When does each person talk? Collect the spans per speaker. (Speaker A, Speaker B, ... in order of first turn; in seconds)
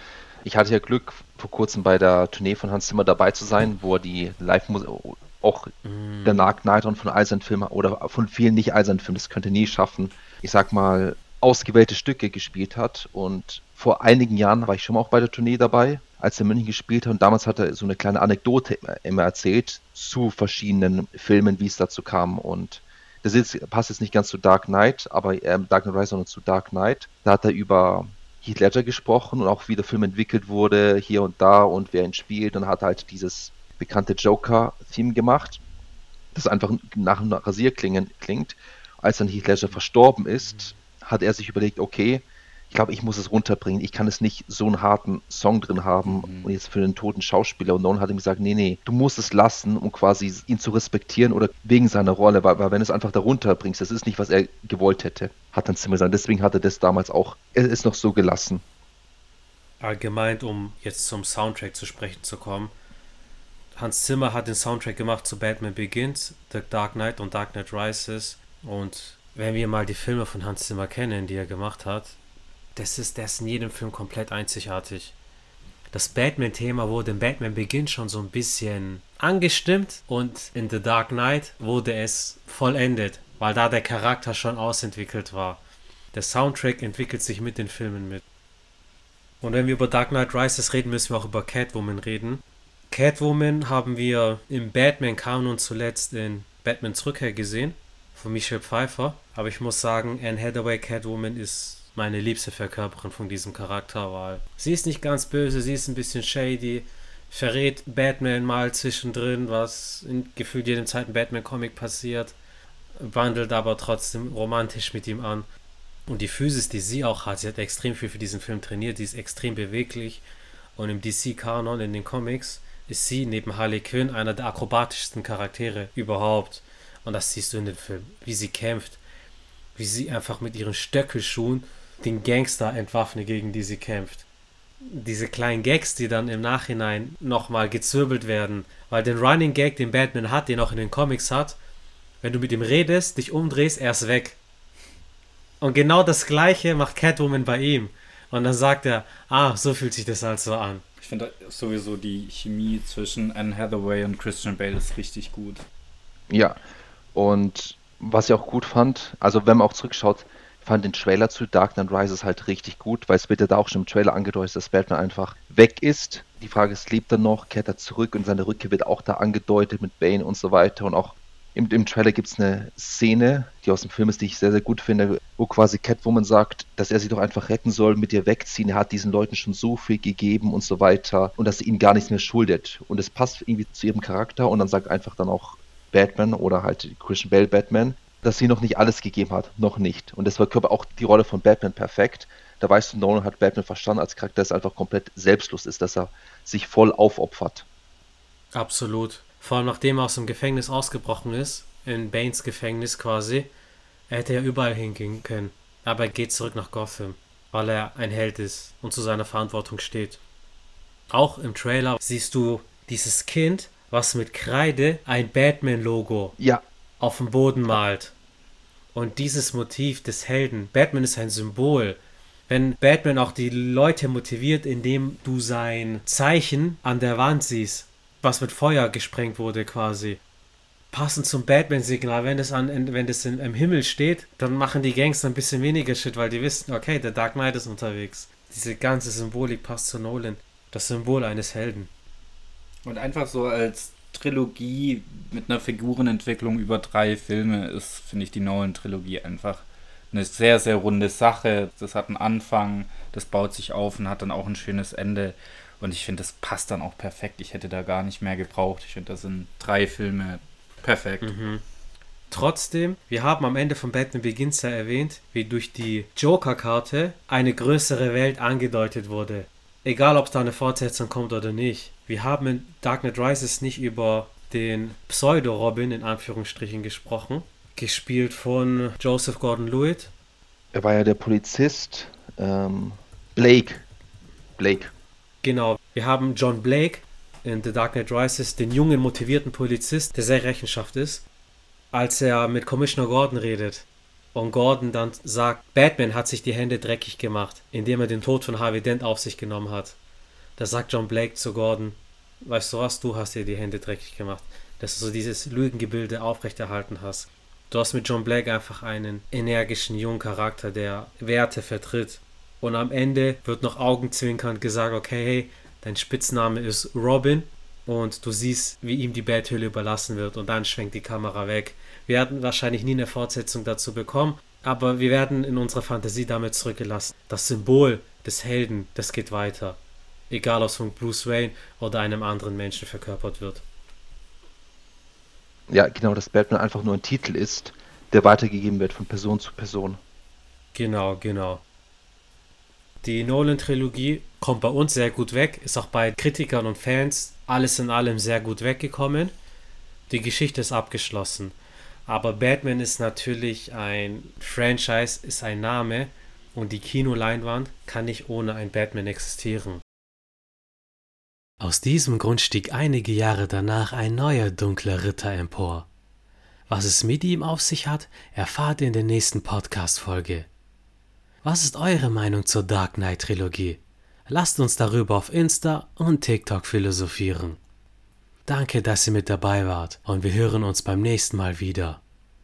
Speaker A: 0.4-5.7, 6.2-35.6, 36.3-58.6, 156.3-156.6, 157.1-197.7, 280.7-283.8, 284.6-284.9, 335.7-340.0
Speaker B: 5.8-6.5, 59.8-62.7, 63.7-72.2, 72.7-75.1, 75.9-85.6, 86.1-88.2, 89.4-112.3, 113.0-115.5, 116.1-120.2, 120.8-129.0, 129.8-134.2, 134.8-141.6, 142.2-144.4, 145.6-150.8, 198.5-203.5, 204.1-210.2, 211.1-216.4, 217.0-218.1, 218.9-222.0, 222.5-230.2, 230.9-241.9, 261.2-261.6, 262.3-280.1, 285.4-291.2, 291.9-300.0, 300.6-329.8, 330.3-333.6, 340.7-341.6, 343.0-349.3, 350.1-351.5, 352.1-359.8, 361.6-365.9, 366.7-370.5, 371.4-377.6, 378.4-382.0
Speaker C: 46.0-46.5, 151.0-155.6, 242.8-261.3